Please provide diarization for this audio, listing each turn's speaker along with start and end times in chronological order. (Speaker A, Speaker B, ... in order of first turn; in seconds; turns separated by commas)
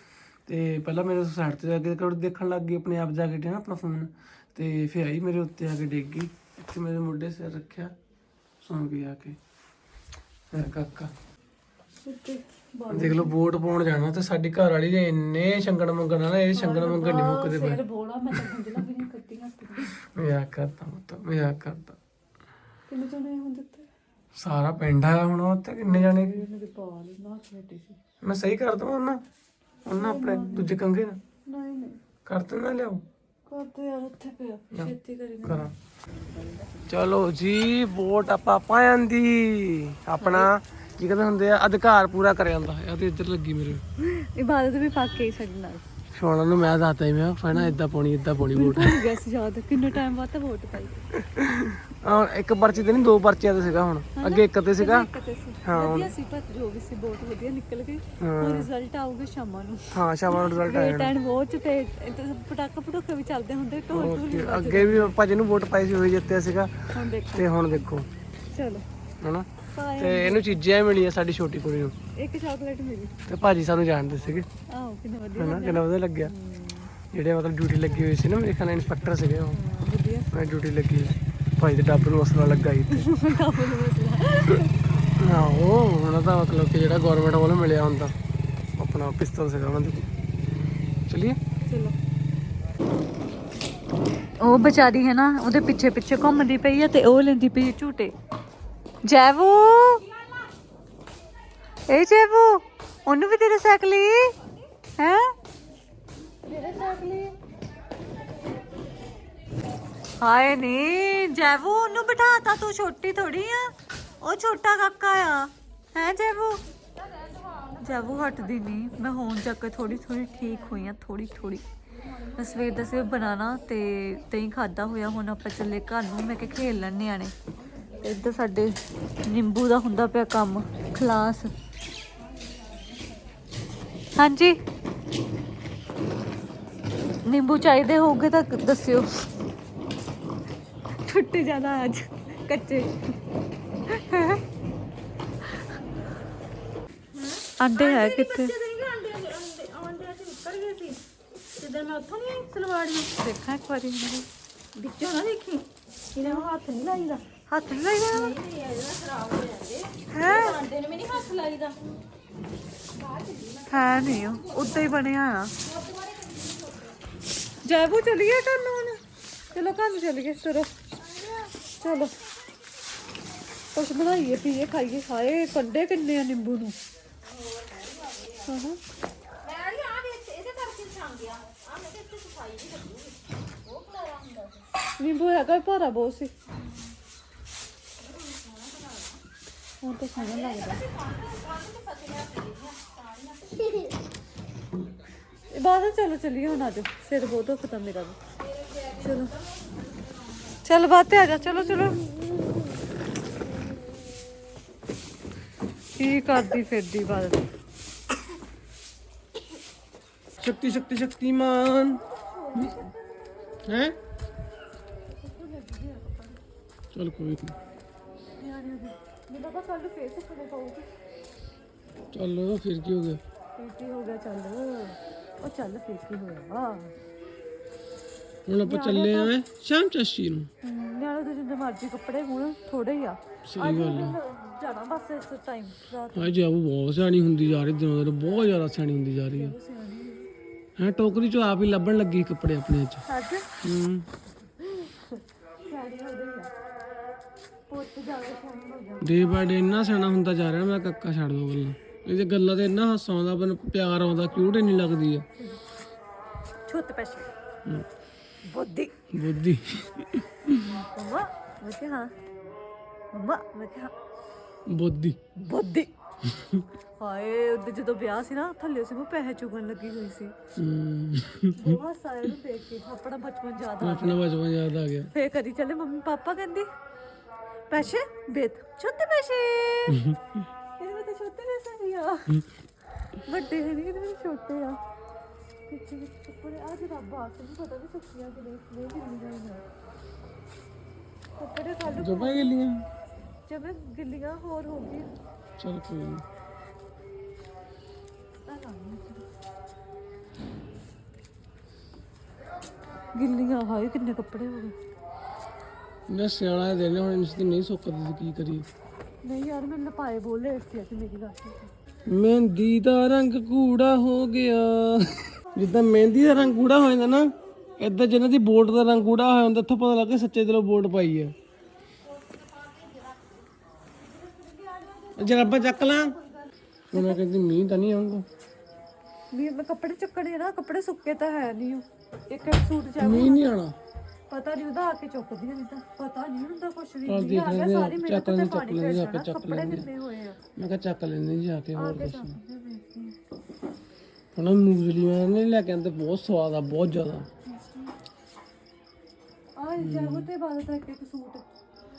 Speaker A: 0.5-7.9, Speaker A: 8.6-9.4, Speaker A: 10.5-11.1, Speaker B: 12.0-13.3, Speaker A: 12.9-17.8, Speaker B: 16.5-19.9, Speaker A: 20.0-22.0, Speaker B: 22.9-23.9, Speaker A: 24.4-26.3, Speaker B: 25.9-28.0, Speaker A: 28.2-29.2, Speaker A: 29.9-31.2, Speaker B: 29.9-30.8, Speaker B: 31.5-32.0, Speaker A: 32.2-33.0, Speaker B: 33.5-36.9, Speaker A: 34.7-35.7, Speaker A: 36.9-43.8, Speaker B: 40.2-40.5, Speaker B: 44.0-45.8, Speaker A: 46.1-49.0, Speaker B: 48.5-51.1, Speaker A: 51.2-55.1, Speaker B: 54.1-65.2, Speaker A: 55.6-56.1, Speaker A: 58.2-58.7, Speaker A: 59.9-61.1, Speaker A: 63.9-66.7, Speaker B: 66.9-68.0, Speaker A: 67.3-68.1, Speaker B: 68.5-68.8, Speaker A: 69.2-71.9, Speaker B: 69.7-70.5, Speaker B: 72.2-73.2, Speaker A: 73.3-74.5, Speaker B: 74.7-76.9, Speaker A: 75.4-76.3, Speaker A: 77.1-79.6, Speaker B: 79.5-80.3, Speaker A: 80.3-83.1, Speaker B: 82.9-85.2, Speaker A: 85.2-88.1, Speaker A: 88.8-90.1, Speaker A: 91.1-91.4, Speaker B: 91.7-92.0, Speaker B: 94.4-98.1, Speaker B: 99.0-100.0, Speaker B: 101.9-105.3, Speaker B: 106.4-107.4, Speaker B: 110.2-116.6, Speaker B: 117.8-121.6, Speaker B: 122.3-127.3, Speaker B: 127.9-131.5, Speaker B: 134.2-134.6, Speaker B: 137.2-139.3, Speaker B: 141.0-143.2, Speaker B: 143.9-144.4, Speaker C: 147.2-151.0, Speaker B: 147.6-148.6, Speaker C: 151.6-153.1, Speaker B: 153.1-154.2, Speaker C: 154.8-155.6, Speaker B: 156.2-158.4, Speaker C: 156.2-156.6, Speaker C: 158.1-161.7, Speaker B: 160.1-161.5, Speaker C: 163.0-164.8, Speaker B: 163.7-165.5, Speaker C: 165.7-166.8, Speaker B: 167.6-170.7, Speaker B: 171.8-172.1, Speaker B: 173.7-176.8, Speaker C: 177.4-178.5, Speaker B: 178.4-178.8, Speaker C: 179.4-184.6, Speaker B: 185.0-186.3, Speaker C: 188.1-189.0, Speaker B: 189.8-190.9, Speaker C: 190.3-193.7, Speaker B: 195.5-198.2, Speaker C: 198.6-199.1, Speaker B: 199.0-199.3, Speaker B: 200.6-202.1, Speaker B: 206.0-207.5, Speaker A: 210.4-212.0, Speaker B: 212.1-213.2, Speaker A: 213.7-213.9, Speaker B: 215.1-216.4, Speaker A: 216.9-217.5, Speaker B: 218.3-220.9, Speaker A: 222.1-223.2, Speaker B: 223.6-226.9, Speaker A: 228.5-230.5, Speaker B: 228.6-229.3, Speaker B: 230.6-236.4, Speaker A: 233.5-234.2, Speaker A: 236.1-239.5, Speaker B: 239.3-240.3, Speaker A: 240.8-243.0, Speaker B: 243.1-243.5, Speaker A: 243.6-244.1, Speaker B: 244.6-246.5, Speaker B: 247.7-249.2, Speaker A: 249.0-255.2, Speaker B: 256.6-257.3, Speaker B: 258.4-258.9, Speaker A: 259.1-260.6, Speaker B: 260.6-262.1, Speaker B: 263.1-263.9, Speaker A: 264.7-265.2, Speaker B: 265.4-265.9, Speaker A: 266.3-266.6, Speaker B: 267.0-270.3, Speaker A: 270.6-271.7, Speaker B: 271.5-274.2, Speaker A: 273.8-275.1, Speaker B: 275.1-276.7, Speaker B: 277.7-280.0, Speaker A: 279.9-280.2, Speaker B: 280.8-282.4, Speaker B: 283.2-284.8, Speaker B: 285.7-289.6, Speaker B: 291.4-292.5, Speaker A: 291.9-292.8, Speaker B: 293.5-295.1, Speaker A: 295.6-296.2, Speaker B: 298.4-299.2, Speaker B: 303.1-304.8, Speaker A: 306.1-308.6, Speaker B: 309.2-311.7, Speaker A: 312.1-321.3, Speaker B: 324.1-327.2, Speaker A: 325.1-326.1, Speaker A: 326.9-328.2, Speaker B: 329.3-333.5, Speaker A: 333.0-333.8, Speaker B: 334.3-340.4, Speaker A: 337.0-339.9, Speaker A: 340.6-342.4, Speaker B: 341.7-343.2, Speaker A: 344.3-347.3, Speaker B: 347.4-347.9, Speaker B: 349.6-351.4, Speaker A: 349.8-350.3